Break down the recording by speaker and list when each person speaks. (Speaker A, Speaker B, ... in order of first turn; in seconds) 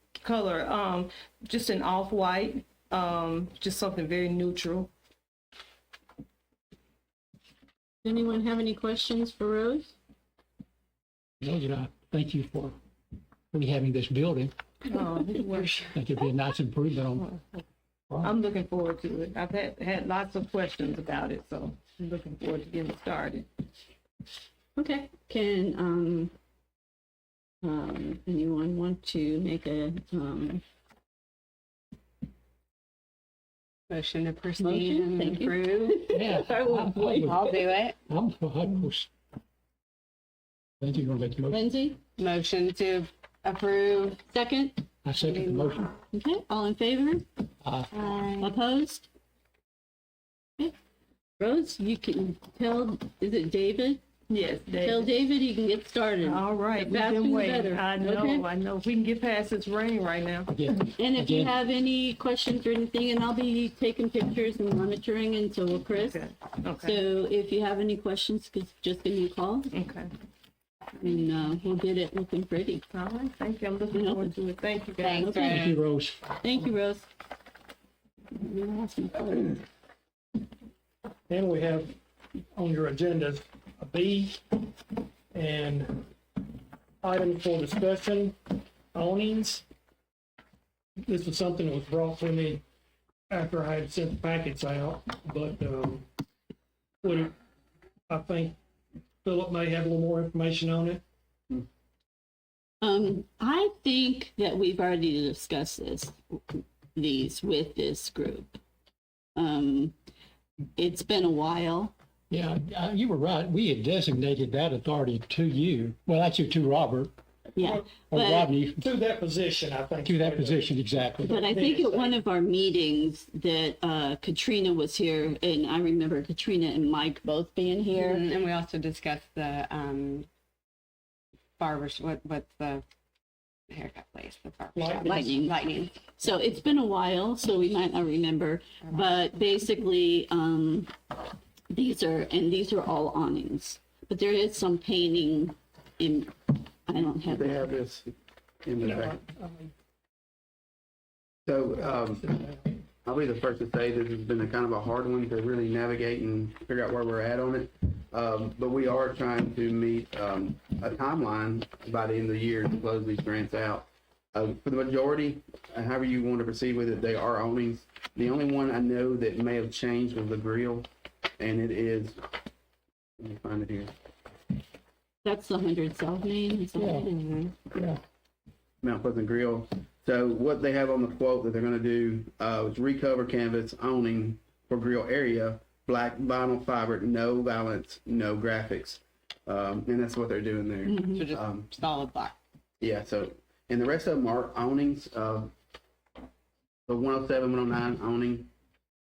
Speaker A: 0.2-4.9, 14.9-16.0, 18.2-23.5, 54.3-55.1, 56.2-60.5, 66.1-67.0, 69.7-70.1, 72.9-75.4
Speaker B: 8.0-9.9, 24.8-26.3, 27.6-30.6, 34.6-37.4, 41.5-42.0, 44.3-44.8, 46.1-47.2, 48.4-49.1, 51.4-54.0, 54.8-58.5, 61.0-69.7, 71.0-72.8, 73.9-74.3, 75.2-75.7, 76.4-77.1, 78.3-79.6, 102.8-108.6, 109.4-110.0, 110.8-111.9, 117.6-118.5, 121.2-128.3, 135.0-135.6, 136.2-140.9, 141.7-147.8, 175.2-177.2, 190.9-191.2
Speaker C: 11.4-12.8, 13.5-14.5, 15.9-17.3, 36.1-39.1, 40.8-41.6, 45.0-45.9, 47.6-47.9, 60.5-61.5, 75.3-76.2, 112.3-117.1, 118.1-118.9, 120.0-121.3, 176.8-177.1, 177.7-178.0
Speaker D: 33.9-36.0, 37.2-38.0, 42.2-44.2, 45.2-45.9, 47.9-48.5, 75.0-75.8, 128.0-130.3, 131.6-132.8, 133.7-136.0, 176.8-177.6, 191.1-192.4
Speaker E: 81.3-82.0, 82.5-86.5, 87.0-89.7, 91.0-92.6, 93.3-96.1, 97.0-97.3, 98.1-98.6, 99.2-101.0, 118.8-122.2, 134.8-135.3, 148.8-149.7, 151.8-152.8
Speaker F: 147.3-148.1, 148.7-149.2, 151.5-152.3, 153.1-170.9, 171.4-172.2, 173.2-173.9, 178.8-191.7, 192.8-195.5, 196.9-198.5